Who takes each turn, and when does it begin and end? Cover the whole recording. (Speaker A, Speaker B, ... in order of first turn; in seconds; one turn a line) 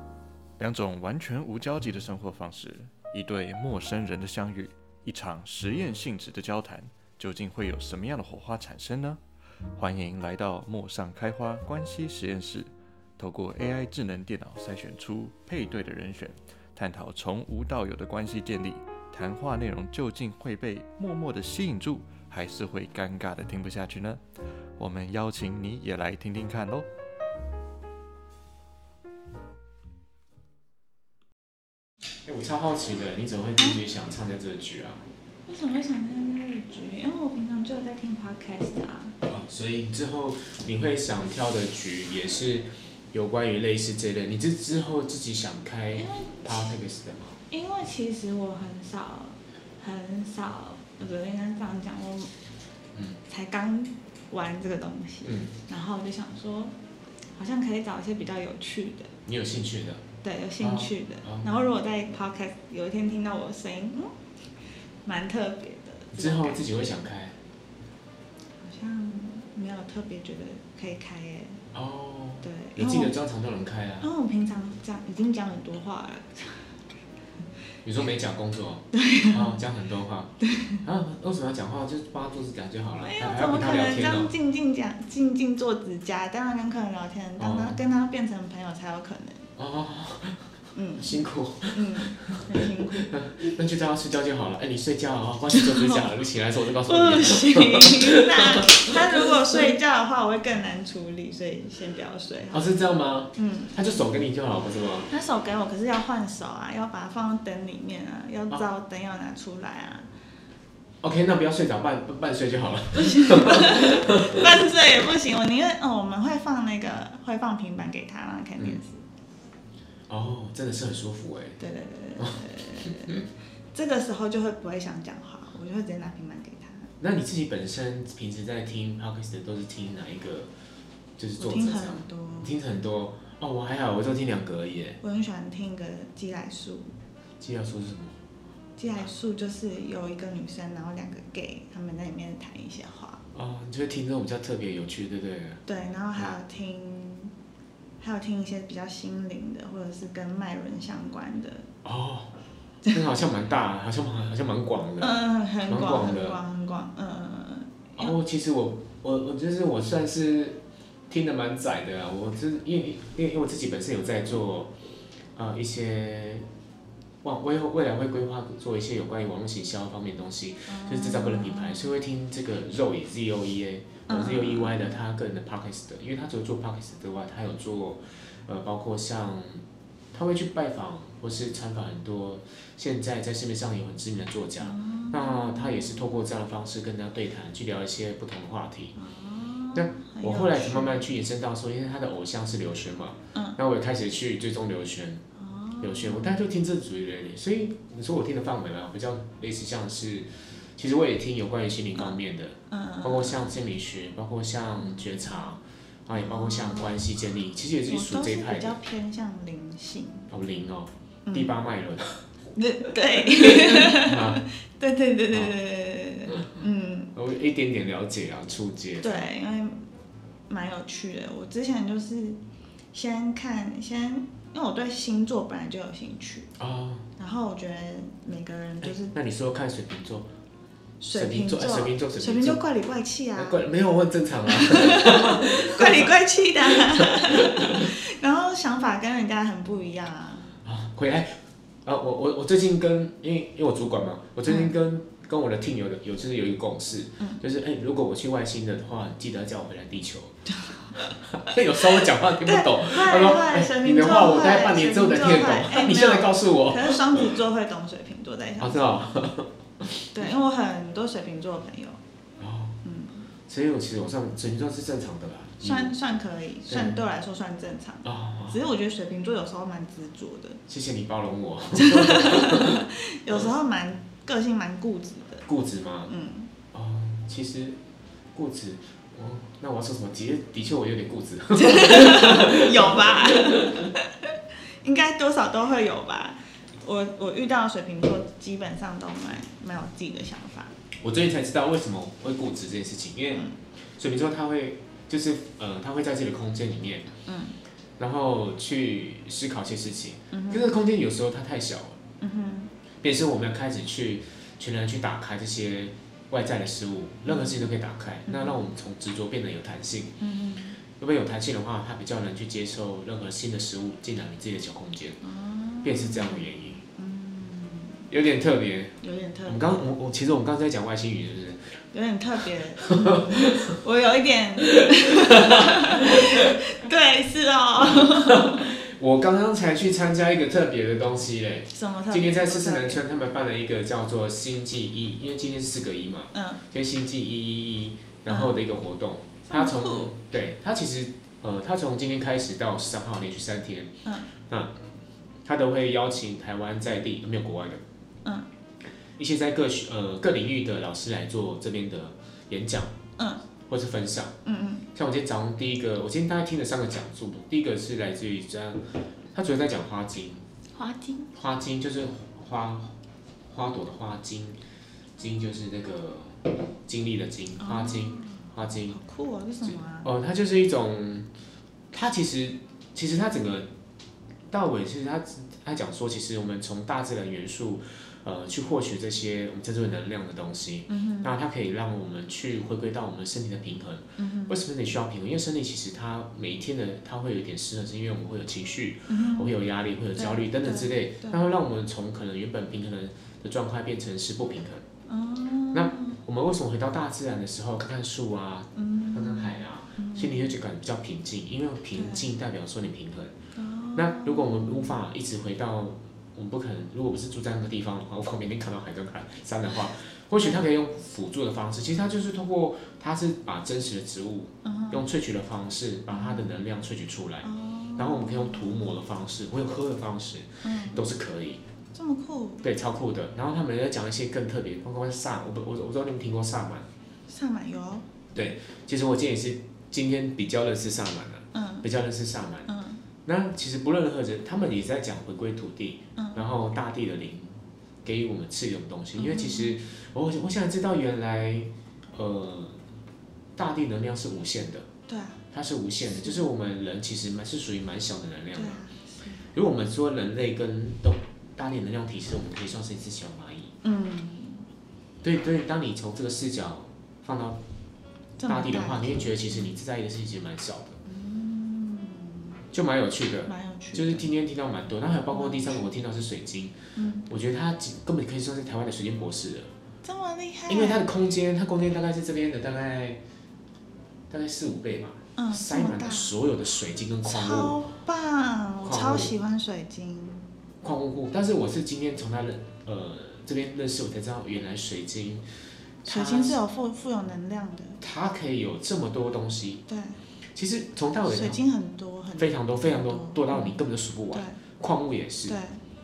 Speaker A: 0.6-9.2
Speaker A: 9.7-24.2
Speaker A: 24.8-26.9
Speaker B: 32.2-35.0
Speaker C: 35.5-39.1
Speaker B: 39.2-47.4
Speaker C: 45.9-46.6
Speaker C: 47.5-52.3
Speaker C: 53.3-56.8
Speaker B: 55.2-55.5
Speaker C: 57.3-59.1
Speaker B: 59.2-60.0
Speaker C: 60.2-64.1
Speaker B: 60.6-61.5
Speaker C: 65.0-67.0
Speaker B: 66.1-67.4
Speaker C: 68.6-71.6
Speaker B: 71.7-74.1
Speaker C: 72.4-73.1
Speaker C: 74.0-76.7
Speaker B: 77.8-84.3
Speaker C: 78.9-79.6
Speaker C: 80.4-80.8
Speaker C: 83.0-89.5
Speaker B: 87.4-87.8
Speaker B: 89.6-99.3
Speaker C: 90.7-91.2
Speaker C: 91.7-93.1
Speaker C: 95.5-96.1
Speaker C: 96.8-102.7
Speaker B: 102.5-105.1
Speaker C: 103.3-103.7
Speaker C: 105.1-110.1
Speaker B: 111.0-114.5
Speaker C: 112.9-119.0
Speaker B: 120.1-121.6
Speaker C: 121.6-126.9
Speaker B: 122.2-123.2
Speaker B: 127.0-130.5
Speaker B: 131.2-135.0
Speaker C: 131.4-132.5
Speaker C: 135.0-136.9
Speaker B: 137.4-138.2
Speaker C: 138.8-143.2
Speaker B: 143.3-145.6
Speaker C: 145.7-147.3
Speaker C: 148.0-151.7
Speaker B: 151.8-152.3
Speaker B: 152.9-156.4
Speaker C: 155.0-158.2
Speaker B: 158.0-164.7
Speaker B: 165.3-166.5
Speaker B: 167.2-188.9
Speaker C: 170.7-171.9
Speaker C: 174.1-174.9
Speaker C: 184.6-186.1
Speaker C: 188.9-191.0
Speaker B: 189.7-195.2
Speaker C: 195.3-196.4
Speaker B: 195.8-208.8
Speaker C: 202.7-203.4
Speaker C: 204.8-205.6
Speaker C: 206.1-207.1
Speaker C: 207.9-210.3
Speaker B: 210.3-212.2
Speaker C: 211.2-211.5
Speaker C: 212.5-217.1
Speaker B: 213.1-214.4
Speaker B: 217.1-219.2
Speaker C: 219.0-219.8
Speaker C: 220.5-222.4
Speaker C: 222.9-226.5
Speaker B: 226.6-227.1
Speaker C: 227.2-229.1
Speaker B: 228.8-230.3
Speaker C: 231.0-233.6
Speaker B: 231.1-232.6
Speaker B: 233.3-237.9
Speaker C: 234.5-240.5
Speaker B: 240.6-250.3
Speaker C: 244.5-244.7
Speaker C: 250.7-251.1
Speaker B: 251.0-257.4
Speaker C: 252.4-259.0
Speaker B: 258.6-260.1
Speaker C: 260.1-262.0
Speaker B: 262.4-262.8
Speaker C: 262.8-263.3
Speaker B: 263.5-265.9
Speaker C: 265.6-270.6
Speaker B: 266.7-266.9
Speaker B: 268.0-268.6
Speaker B: 270.7-273.5
Speaker C: 271.7-275.4
Speaker B: 275.4-276.1
Speaker C: 276.1-276.5
Speaker B: 276.7-277.8
Speaker B: 278.3-283.9
Speaker C: 281.6-284.3
Speaker C: 284.8-290.7
Speaker B: 291.0-293.4
Speaker B: 294.0-297.1
Speaker C: 297.2-297.6
Speaker B: 298.0-302.0
Speaker C: 300.3-300.7
Speaker C: 302.2-302.7
Speaker B: 303.0-310.1
Speaker C: 307.2-307.7
Speaker C: 308.2-308.6
Speaker C: 310.2-310.8
Speaker B: 310.9-315.2
Speaker C: 315.2-318.1
Speaker B: 315.8-316.8
Speaker B: 318.1-321.8
Speaker C: 319.0-319.9
Speaker C: 321.9-328.6
Speaker B: 322.9-323.7
Speaker B: 325.0-326.5
Speaker B: 327.9-344.9
Speaker C: 331.7-333.0
Speaker C: 336.3-336.6
Speaker C: 338.3-338.6
Speaker C: 339.5-340.1
Speaker B: 345.4-347.8
Speaker C: 348.2-348.5
Speaker B: 349.2-352.9
Speaker C: 353.2-353.4
Speaker B: 353.7-354.4
Speaker C: 354.4-354.9
Speaker B: 354.9-360.4
Speaker C: 360.7-361.3
Speaker B: 361.3-362.9
Speaker B: 363.5-364.6
Speaker B: 365.2-369.0
Speaker C: 367.6-370.1
Speaker B: 369.6-371.3
Speaker B: 371.9-373.7
Speaker B: 374.5-394.8
Speaker C: 380.9-381.3
Speaker C: 384.2-384.6
Speaker C: 389.1-389.5
Speaker C: 390.1-391.4
Speaker C: 395.1-396.1
Speaker B: 395.7-403.4
Speaker C: 398.7-400.6
Speaker C: 401.9-402.3
Speaker C: 403.5-405.0
Speaker B: 403.9-421.6
Speaker C: 414.6-415.1
Speaker C: 416.1-416.5
Speaker C: 417.4-418.9
Speaker C: 420.6-421.1
Speaker C: 421.9-422.6
Speaker B: 422.6-426.9
Speaker C: 427.3-428.1
Speaker B: 428.3-432.7
Speaker C: 431.5-431.9
Speaker C: 432.7-433.0
Speaker B: 433.2-442.8
Speaker C: 436.1-436.4
Speaker C: 439.2-439.8
Speaker B: 443.6-444.9
Speaker C: 445.1-445.4
Speaker B: 445.5-448.8
Speaker C: 446.1-446.4
Speaker C: 448.6-449.5
Speaker B: 449.5-453.7
Speaker C: 453.8-454.7
Speaker B: 455.2-457.6
Speaker C: 458.4-459.7
Speaker B: 458.4-461.0
Speaker C: 461.0-462.6
Speaker B: 462.7-469.7
Speaker C: 463.4-464.3
Speaker C: 465.3-465.9
Speaker C: 466.9-467.3
Speaker C: 470.0-471.0
Speaker B: 470.7-473.2
Speaker B: 474.3-477.9
Speaker C: 475.4-476.3
Speaker C: 477.2-480.5
Speaker B: 478.8-479.3
Speaker B: 480.8-485.4
Speaker B: 486.0-486.6
Speaker C: 486.1-488.0
Speaker B: 488.0-489.8
Speaker C: 489.9-490.2
Speaker B: 490.5-491.6
Speaker C: 491.2-494.6
Speaker B: 492.4-495.6
Speaker C: 495.5-495.8